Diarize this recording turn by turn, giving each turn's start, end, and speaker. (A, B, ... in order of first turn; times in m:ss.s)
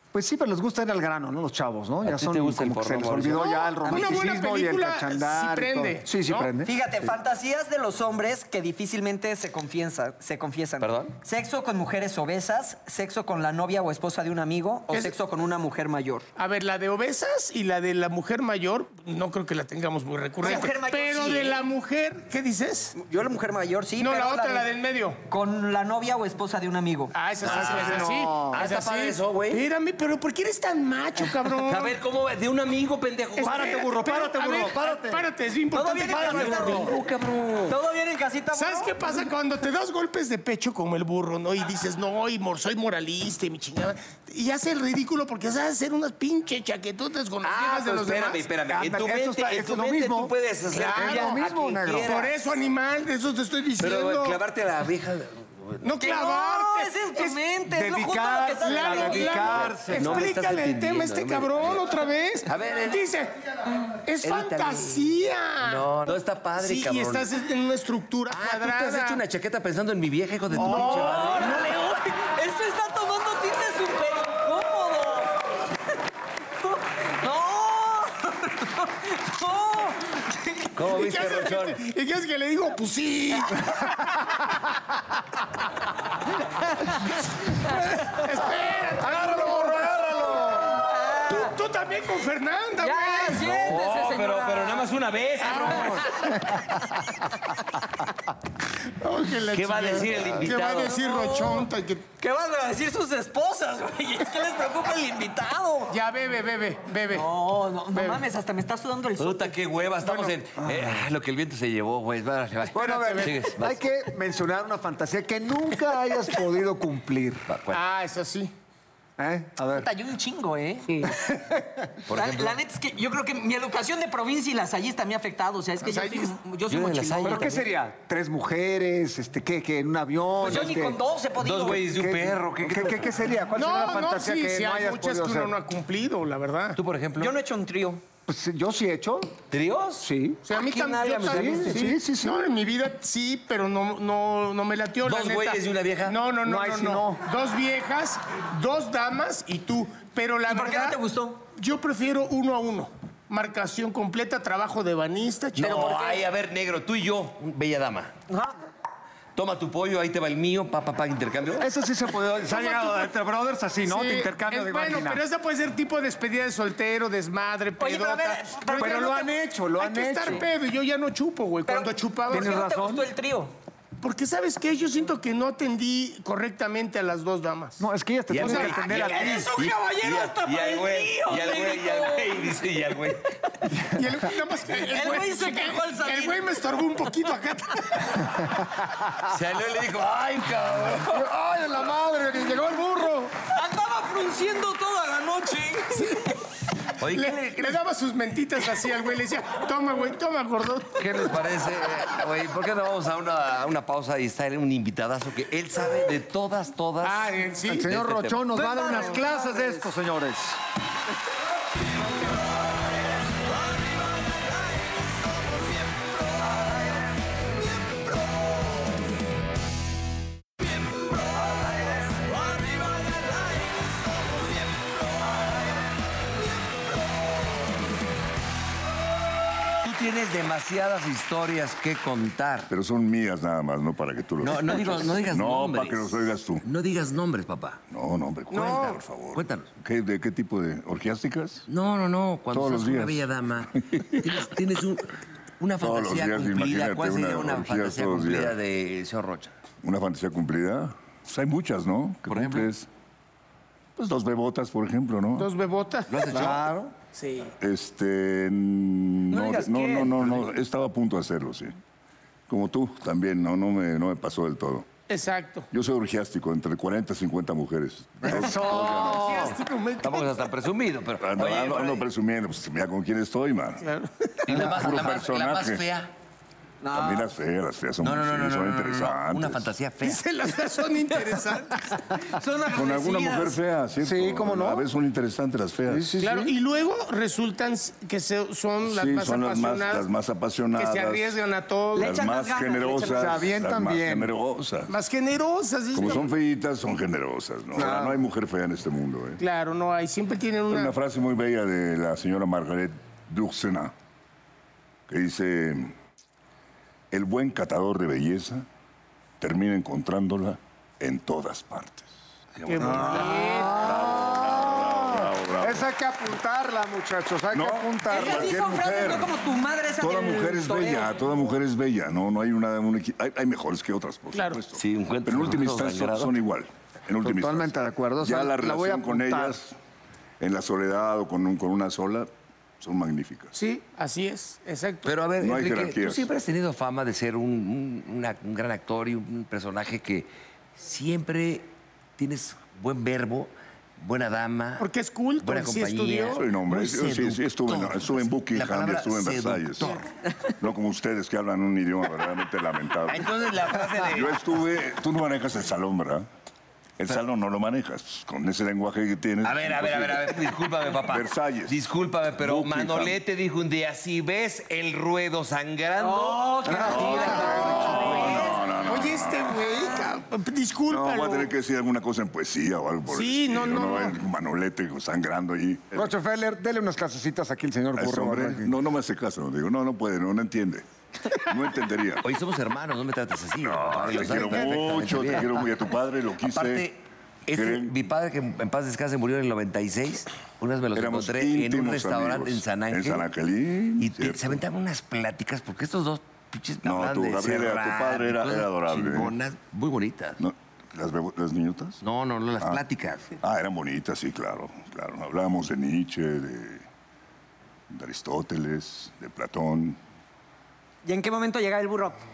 0:00.1-0:06.7 A
0:02.0-0:03.5 B
0:03.3-0:06.5 C
0:03.9-0:04.2 D
0:06.6-0:16.3 D
0:10.8-0:11.2 B
0:16.4-0:23.0 C
0:20.4-0:21.7 D
0:23.0-0:24.7 D
0:24.0-0:25.2 C
0:25.3-0:27.2 D
0:27.1-0:32.0 C
0:27.4-0:28.6 A
0:27.4-0:29.6 B
0:31.6-0:33.6 B
0:33.4-0:37.0 C
0:33.4-0:35.3 A
0:35.7-0:36.9 D
0:36.1-0:36.8 A
0:36.2-0:37.8 B
0:37.7-0:39.0 D
0:38.5-0:48.4 C
0:47.4-0:52.4 B
0:48.7-0:50.3 A
0:50.7-0:51.4 C
0:50.9-0:52.3 A
0:52.0-0:54.4 C
0:53.8-0:55.8 B
0:55.8-0:57.4 C
0:56.0-0:59.6 D
0:57.7-1:00.3 A
0:58.6-1:03.4 C
0:59.4-1:01.8 B
1:02.5-1:03.0 B
1:04.0-1:09.2 C
1:04.2-1:05.1 B
1:05.6-1:07.3 B
1:08.3-1:11.6 B
1:10.5-1:11.5 A
1:10.6-1:11.5 C
1:10.7-1:15.4 D
1:16.6-1:20.6 D
1:20.8-1:21.8 B
1:20.9-1:24.1 C
1:28.0-1:33.6 C
1:29.0-1:30.9 A
1:30.8-1:31.6 D
1:32.8-1:34.9 D
1:33.4-1:36.1 B
1:35.4-1:36.4 C
1:35.5-1:36.4 D
1:39.0-1:42.1 C
1:39.5-1:41.0 B
1:40.9-1:41.7 D
1:42.2-1:46.0 D
1:45.9-1:47.3 C
1:47.1-1:49.6 D
1:47.9-1:48.2 C
1:49.2-1:53.8 B
1:50.0-1:51.0 A
1:52.7-1:57.4 A
1:57.5-1:57.8 B
1:57.7-1:58.5 C
1:59.2-1:59.9 A
1:59.7-2:01.1 D
2:01.0-2:01.9 A
2:02.1-2:02.6 B
2:02.1-2:07.5 D
2:05.8-2:06.3 C
2:06.7-2:07.6 B
2:07.2-2:11.0 A
2:10.4-2:11.9 D
2:11.4-2:13.2 B
2:11.7-2:15.6 A
2:13.6-2:16.8 C
2:16.8-2:17.3 B
2:17.2-2:18.0 D
2:18.3-2:19.4 A
2:19.5-2:20.1 B
2:20.0-2:20.4 A
2:20.5-2:31.0 C
2:20.5-2:21.4 D
2:21.0-2:21.6 B
2:21.2-2:22.5 A
2:25.0-2:26.2 B
2:26.4-2:27.2 A
2:30.5-2:31.4 D
2:31.6-2:36.2 C
2:35.6-2:38.1 B
2:38.3-2:38.5 D
2:39.4-2:41.7 B
2:41.6-2:45.2 A
2:42.5-2:43.0 C
2:43.9-2:52.6 C
2:47.8-2:49.3 D
2:48.7-2:50.5 A
2:51.7-2:53.5 D
2:52.3-2:53.1 A
2:54.0-2:57.8 C
2:57.8-2:59.5 A
2:58.3-3:03.3 B
2:58.4-3:00.2 C
2:59.0-3:02.5 D
3:03.9-3:08.3 C
3:04.7-3:06.6 D
3:09.1-3:11.3 B
3:11.1-3:13.3 A
3:13.5-3:16.3 D
3:16.0-3:16.3 C
3:17.0-3:17.8 B
3:17.0-3:21.4 C
3:21.0-3:28.4 B
3:27.0-3:27.9 C
3:27.7-3:30.6 A
3:28.6-3:29.8 D
3:49.8-3:52.7 B
3:52.7-3:56.6 E
3:54.4-3:57.8 B
3:57.9-4:01.7 E
3:58.5-3:59.0 C
3:59.3-3:59.7 B
4:01.7-4:09.5 B
4:02.5-4:03.2 E
4:03.8-4:04.5 E
4:05.8-4:08.6 E
4:09.8-4:12.9 E
4:12.3-4:12.7 B
4:14.0-4:15.5 E
4:15.4-4:16.5 C
4:16.1-4:16.6 B
4:16.3-4:17.0 A
4:17.1-4:17.5 C
4:17.6-4:21.8 E
4:20.0-4:20.4 B
4:22.5-4:24.9 E
4:25.1-4:25.7 C
4:25.7-4:29.5 E
4:28.2-4:29.6 A
4:28.7-4:30.4 C
4:30.0-4:32.1 B
4:31.2-4:33.9 E
4:33.8-4:34.1 C
4:34.4-4:36.1 B
4:34.5-4:35.8 E
4:36.8-4:37.3 D
4:36.9-4:39.7 E
4:38.0-4:40.2 B
4:40.0-4:42.0 C
4:42.2-4:43.6 D
4:42.7-4:46.2 E
4:44.0-4:44.9 A
4:45.9-4:46.5 A
4:46.2-4:50.1 C
4:48.8-4:51.4 E
4:50.8-4:52.2 C
4:51.9-4:53.5 D
4:52.0-4:55.0 E
4:53.0-4:54.3 A
4:54.9-4:56.3 C
4:55.9-4:59.4 E
4:57.7-4:58.2 A
4:59.4-5:01.0 C
5:00.7-5:03.9 E
5:05.1-5:06.0 E
5:07.1-5:08.7 E
5:09.4-5:15.9 E
5:12.6-5:13.9 C
5:12.8-5:18.9 A
5:17.5-5:19.3 E
5:18.1-5:21.1 D
5:20.0-5:29.8 E
5:24.3-5:24.6 C
5:24.7-5:26.4 B
5:27.2-5:29.6 A
5:30.4-5:32.3 E
5:32.8-5:33.6 E
5:33.6-5:35.1 C
5:35.0-5:44.9 B
5:35.4-5:36.3 E
5:44.8-5:46.4 C
5:45.4-5:50.0 B
5:46.4-5:50.1 E
5:50.6-5:56.3 E
5:53.1-5:54.4 B
5:57.0-6:01.8 E
5:59.4-6:08.6 B
6:02.4-6:03.2 E
6:06.0-6:08.6 D
6:06.6-6:08.2 A
6:06.9-6:09.6 E
6:08.2-6:11.5 C
6:10.9-6:16.1 E
6:13.1-6:14.2 C
6:15.9-6:18.8 A
6:18.0-6:22.3 E
6:22.2-6:25.7 B
6:23.6-6:26.9 E
6:26.4-6:33.3 B
6:27.5-6:28.0 E
6:31.0-6:34.6 E
6:34.0-6:40.4 B
6:36.8-6:39.3 E
6:40.4-6:42.0 E
6:42.0-6:43.4 B
6:43.4-6:46.8 E
6:47.9-6:50.0 E
6:51.0-6:52.2 D